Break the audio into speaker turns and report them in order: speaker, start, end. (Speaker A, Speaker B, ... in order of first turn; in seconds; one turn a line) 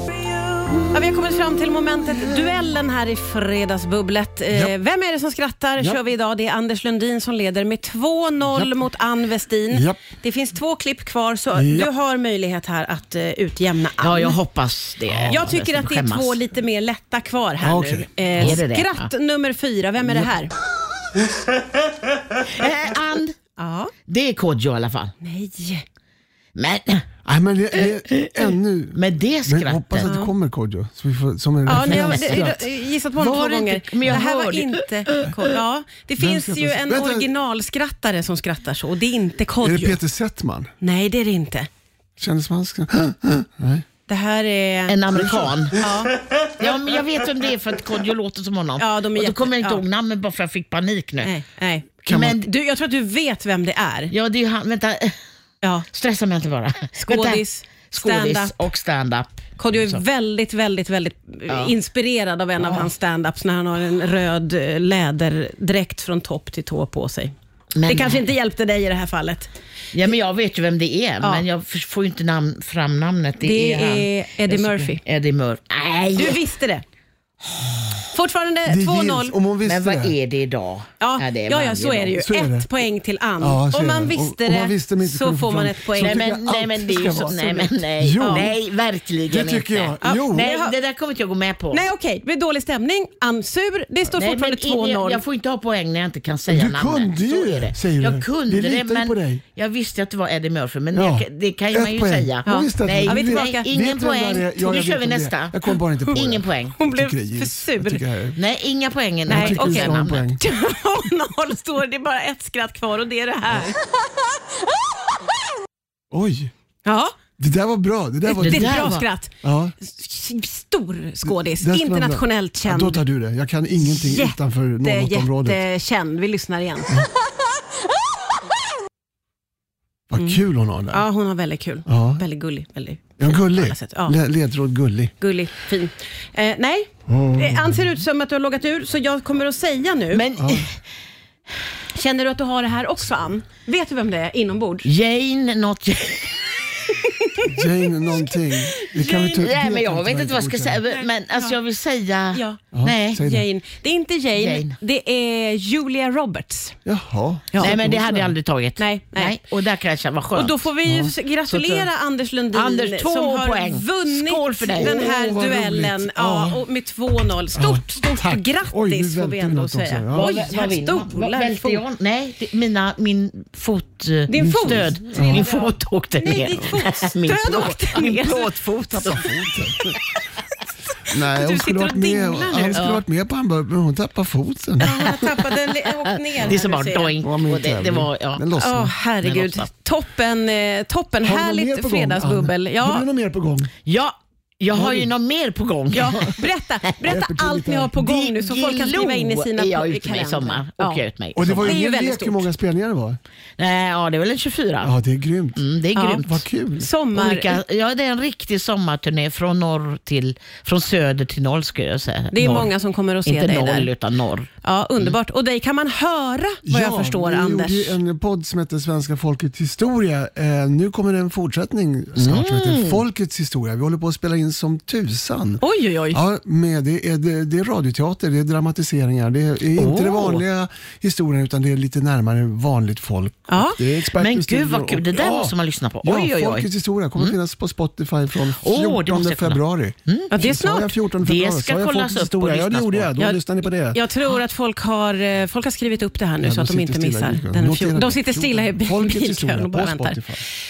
Speaker A: 0.3-14.4
Speaker B: 2.1-2.6
Speaker B: 8.5-8.7
Speaker B: 9.7-10.0
Speaker B: 11.5-11.9
Speaker C: 14.0-16.4
Speaker B: 15.1-15.5
Speaker A: 15.3-20.5
Speaker B: 17.6-18.6
Speaker C: 18.4-19.1
Speaker B: 20.0-20.3
Speaker C: 22.4-23.4
Speaker A: 23.6-23.9
Speaker C: 24.1-25.1
Speaker A: 25.2-25.8
Speaker C: 26.5-27.1
Speaker B: 27.2-32.6
Speaker C: 27.8-30.1
Speaker A: 30.0-30.3
Speaker A: 31.6-40.0
Speaker C: 31.7-32.5
Speaker C: 33.1-35.3
Speaker B: 36.2-37.3
Speaker B: 39.6-40.7
Speaker A: 40.8-41.7
Speaker B: 42.2-43.8
Speaker A: 44.1-45.0
Speaker C: 44.9-45.8
Speaker B: 45.1-46.0
Speaker A: 45.8-46.1
Speaker C: 46.5-51.3
Speaker A: 48.8-49.8
Speaker A: 51.2-54.1
Speaker B: 52.0-52.4
Speaker C: 52.1-52.5
Speaker C: 54.1-55.2
Speaker C: 55.9-60.0
Speaker A: 57.1-58.5
Speaker A: 59.6-67.3
Speaker C: 61.5-61.7
Speaker C: 62.6-62.9
Speaker C: 67.7-68.3
Speaker A: 67.9-69.5
Speaker C: 69.9-76.4
Speaker A: 73.4-75.0
Speaker A: 76.1-76.8
Speaker A: 78.1-79.3
Speaker B: 78.7-80.1
Speaker C: 79.6-82.2
Speaker A: 81.0-86.3
Speaker B: 82.2-82.7
Speaker B: 83.4-88.5
Speaker C: 86.0-91.9
Speaker A: 88.2-88.4
Speaker B: 89.3-90.5
Speaker A: 90.0-90.7
Speaker A: 91.7-95.2
Speaker C: 94.1-106.8
Speaker B: 96.5-99.4
Speaker B: 100.9-108.4
Speaker A: 102.5-103.7
Speaker A: 106.8-108.0
Speaker C: 108.4-110.3
Speaker B: 109.3-110.4
Speaker A: 109.3-113.9
Speaker B: 116.1-116.5
Speaker A: 116.8-117.1
Speaker B: 117.4-119.7
Speaker A: 118.2-123.0
Speaker C: 118.4-119.0
Speaker B: 121.2-125.6
Speaker A: 123.8-127.0
Speaker B: 130.1-131.1
Speaker A: 130.2-134.2
Speaker B: 131.8-132.2
Speaker B: 133.2-135.1
Speaker A: 135.2-140.2
Speaker B: 137.1-138.0
Speaker C: 140.1-140.8
Speaker B: 140.3-140.7
Speaker A: 141.9-144.9
Speaker C: 144.8-146.6
Speaker B: 147.5-150.8
Speaker A: 148.8-149.4
Speaker C: 149.3-153.2
Speaker A: 150.9-151.5
Speaker A: 152.3-152.6
Speaker B: 152.7-153.4
Speaker A: 153.2-156.8
Speaker C: 154.3-154.7
Speaker B: 156.8-158.3
Speaker C: 157.6-160.6
Speaker A: 158.8-159.4
Speaker A: 160.3-171.8
Speaker B: 160.8-161.1
Speaker C: 161.5-161.9
Speaker C: 162.5-165.2
Speaker B: 164.8-166.6
Speaker B: 167.5-170.4
Speaker C: 170.1-179.3
Speaker A: 174.3-179.2
Speaker B: 174.4-175.4
Speaker B: 178.9-179.9
Speaker A: 181.0-182.8
Speaker B: 181.1-185.2
Speaker C: 182.7-183.0
Speaker A: 184.8-187.1
Speaker C: 184.9-188.4
Speaker B: 187.2-188.9
Speaker A: 188.6-193.0
Speaker C: 189.2-189.7
Speaker B: 191.2-193.7
Speaker C: 193.8-196.3
Speaker B: 194.7-195.1
Speaker A: 195.9-202.5
Speaker B: 196.0-196.3
Speaker B: 197.0-197.9
Speaker C: 197.9-201.8
Speaker B: 201.3-203.2
Speaker C: 203.6-204.9
Speaker B: 204.8-205.6
Speaker C: 205.6-206.4
Speaker A: 205.9-206.2
Speaker B: 206.2-206.9
Speaker A: 206.8-207.6
Speaker C: 207.1-212.7
Speaker A: 212.3-213.9
Speaker C: 213.2-214.5
Speaker A: 214.6-218.0
Speaker B: 216.6-244.0
Speaker C: 222.2-223.0
Speaker A: 225.6-226.2
Speaker C: 229.7-230.4
Speaker A: 233.5-233.8
Speaker C: 234.2-237.3
Speaker C: 238.6-240.3
Speaker A: 240.3-240.9
Speaker C: 241.2-243.1
Speaker A: 243.9-250.2
Speaker B: 246.4-250.4